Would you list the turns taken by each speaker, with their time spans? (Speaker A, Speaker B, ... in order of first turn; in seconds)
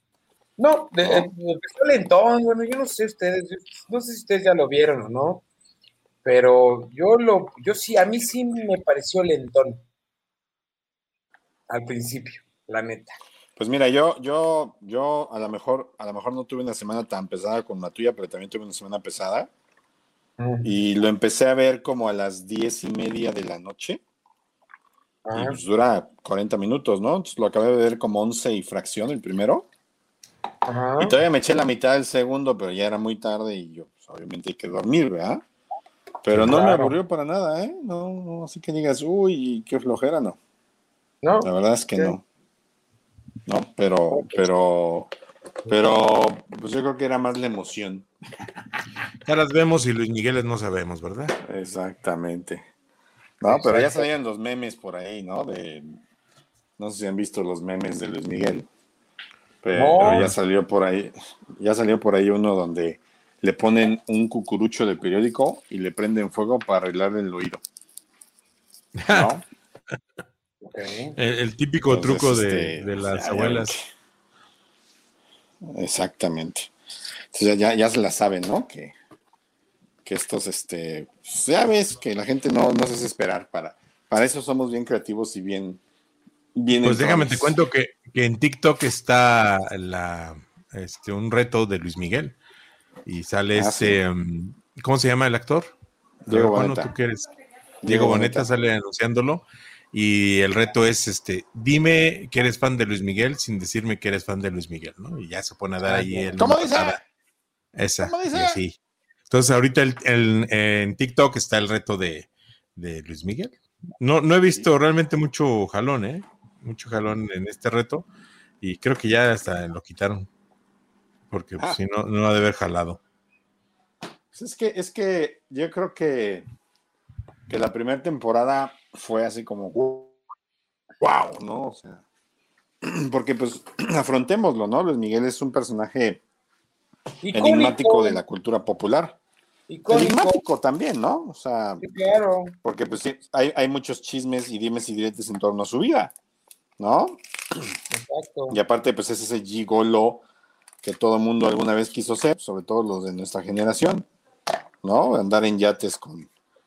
Speaker A: 0.6-5.4, 6.2-9.8, 11.7-13.1, 20.4-20.7, 25.2-25.6, 30.6-31.2, 36.5-36.9, 41.2-42.2, 44.1-44.5, 53.4-54.0, 59.7-60.3, 70.6-71.1, 106.0-106.3, 137.2-138.2, 139.7-140.4, 141.8-142.6, 147.9-148.6
Speaker B: 1.0-1.3, 13.6-19.5, 20.6-24.0, 25.3-29.7, 31.0-35.4, 36.2-40.4, 41.4-42.2, 43.5-45.1, 45.7-48.1, 51.4-52.6, 53.4-55.9, 56.8-58.7, 59.6-67.6, 69.1-69.4, 71.9-73.8, 75.6-76.7, 77.3-78.9, 80.0-85.8, 86.5-87.5, 93.5-94.0, 96.2-96.9, 97.8-98.5, 106.3-107.0, 108.0-108.6, 124.3-126.5, 127.5-130.1, 131.0-132.0, 132.8-136.2, 137.3-139.2, 139.9-141.8, 142.6-146.1, 146.8-147.7, 148.5-150.2, 150.8-154.1, 154.8-156.3
Speaker C: 36.3-36.9, 49.2-51.3, 60.0-60.4, 69.0-69.3, 71.2-73.7, 86.8-92.3, 93.0-95.7, 96.2-97.3, 97.8-107.0, 107.7-108.8, 109.3-118.0, 118.6-120.3, 121.3-123.0